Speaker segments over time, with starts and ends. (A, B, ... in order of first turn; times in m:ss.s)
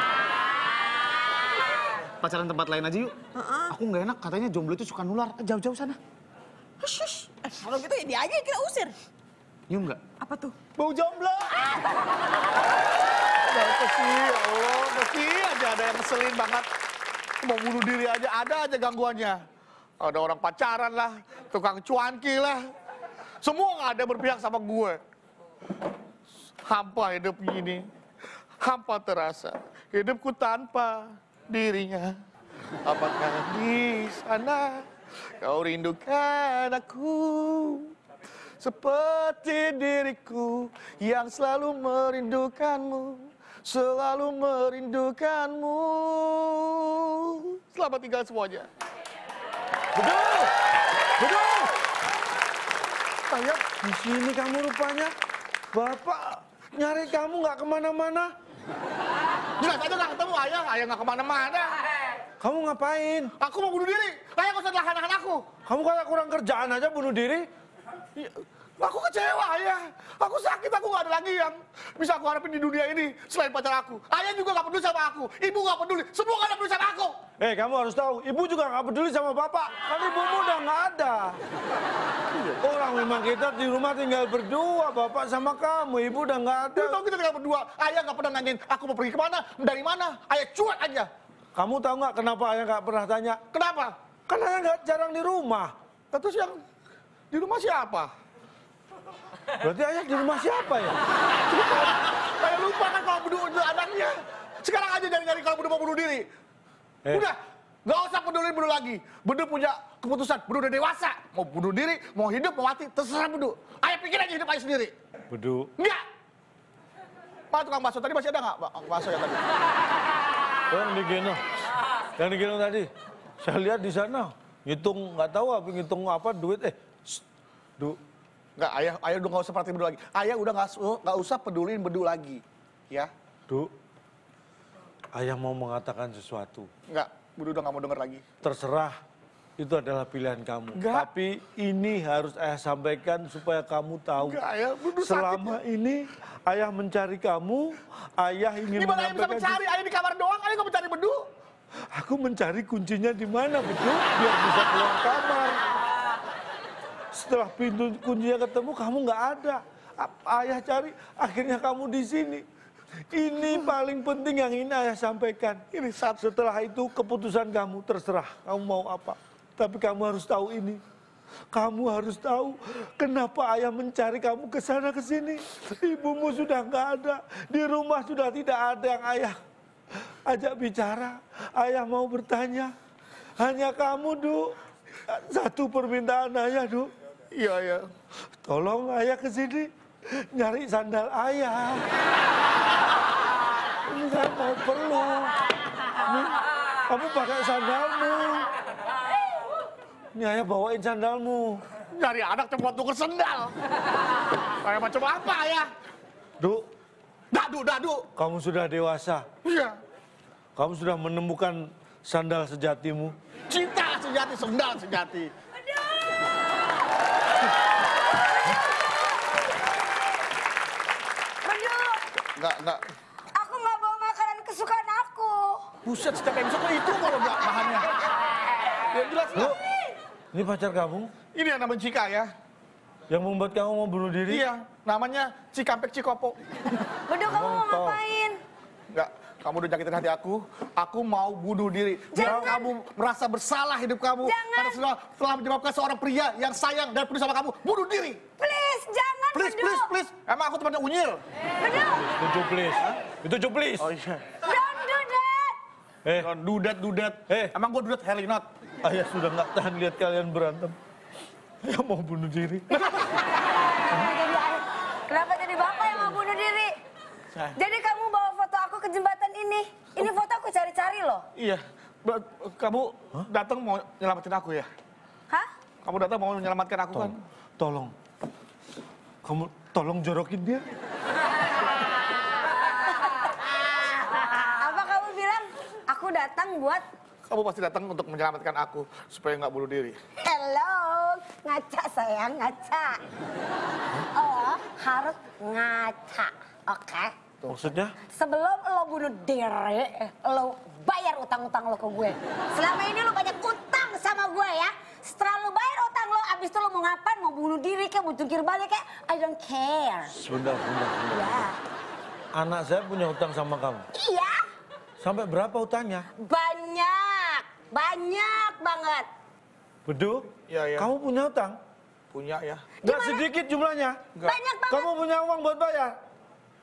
0:02.2-0:03.2 A
0:03.4-0:03.7 B
0:03.7-0:06.0 A
0:06.8-0:08.9 B
0:09.7-0:10.0 A
0:10.2-0:10.6 B
0:10.8-0:11.5 A
0:13.4-0:16.7 C
0:17.4-0:19.4 C
0:20.0-0:22.6 C
0:23.4-0:25.0 C
0:26.6-0:27.9 C
0:28.6-0:32.1 C
0:32.8-0:34.9 C
0:35.4-0:37.9 C
0:38.6-0:48.7 C
0:50.0-0:50.5 D
0:51.2-0:51.7 D
0:53.3-0:55.1 D
0:55.7-0:58.3 D
0:59.6-1:01.8 C
1:02.4-1:03.3 D
1:03.4-1:05.5 C
1:05.6-1:07.5 D
1:08.2-1:17.2 C
1:17.4-1:21.4 D
1:22.5-1:27.0 D
1:26.8-1:31.1 C
1:31.6-1:33.5 D
1:33.5-1:34.0 C
1:34.3-1:35.7 D
1:36.1-1:36.6 C
1:37.3-1:38.1 C
1:39.6-1:41.0 D
1:41.5-1:46.3 C
1:47.1-1:54.9 C
1:55.3-1:55.7 D
1:57.5-1:59.4 C
2:00.7-2:01.4 D
2:02.2-2:02.9 D
2:03.4-2:07.2 D
2:08.6-2:13.1 C
2:15.1-2:16.7 D
2:16.9-2:18.2 C
2:18.4-2:19.0 D
2:19.6-2:24.4 D
2:20.8-2:21.1 C
2:24.2-2:25.6 C
2:25.0-2:29.6 D
2:28.7-2:31.3 C
2:31.9-2:35.6 D
2:37.1-2:42.4 D
2:43.1-2:45.6 D
2:45.7-2:46.2 C
2:46.2-2:50.8 D
2:51.5-2:59.4 D
3:00.3-3:02.7 D
3:03.4-3:04.6 D
3:05.1-3:06.9 D
3:07.3-3:07.9 C
3:08.4-3:09.7 D
3:10.3-3:11.9 D
3:13.9-3:15.4 D
3:16.1-3:18.5 D
3:20.2-3:21.6 D
3:21.9-3:23.5 C
3:24.6-3:25.7 C
3:26.4-3:26.7 D
3:27.3-3:28.0 C
3:28.2-3:29.3 D
3:29.4-3:29.8 C
3:30.6-3:33.2 D
3:33.5-3:35.3 C
3:35.6-3:36.3 E
3:37.9-3:39.2 E
3:41.4-3:42.0 E
3:42.4-3:42.8 C
3:43.4-3:45.7 E
3:45.8-3:48.0 C
3:48.9-3:49.5 C
3:50.3-3:51.1 D
3:51.3-3:52.3 C
3:53.1-3:54.4 D
3:54.3-3:56.8 C
3:57.1-3:58.4 E
3:57.3-3:58.0 D
3:58.9-4:08.2 C
4:02.1-4:02.6 E
4:02.2-4:02.6 D
4:04.2-4:04.8 E
4:08.4-4:09.9 E
4:09.3-4:11.2 C
4:11.6-4:12.1 E
4:11.9-4:13.9 D
4:13.8-4:14.4 C
4:14.4-4:15.6 E
4:16.0-4:16.3 D
4:16.2-4:18.5 C
4:18.8-4:20.8 D
4:21.6-4:22.8 D
4:22.7-4:23.1 C
4:23.9-4:26.7 E
4:27.5-4:31.3 E
4:31.4-4:34.7 C
4:35.8-4:37.2 C
4:37.0-4:37.9 D
4:39.2-4:40.6 D
4:42.9-4:46.8 E
4:47.3-4:50.0 C
4:50.2-4:53.0 E
4:54.2-4:57.4 E
4:57.5-4:58.0 D
4:58.1-5:10.1 E
5:10.1-5:11.5 D
5:11.1-5:11.6 E
5:12.4-5:13.9 D
5:13.9-5:14.4 E
5:15.0-5:16.1 D
5:16.2-5:19.1 E
5:19.9-5:21.6 D
5:20.5-5:20.9 C
5:22.1-5:22.7 C
5:22.8-5:23.3 E
5:22.8-5:24.1 D
5:24.2-5:24.9 E
5:24.7-5:26.0 D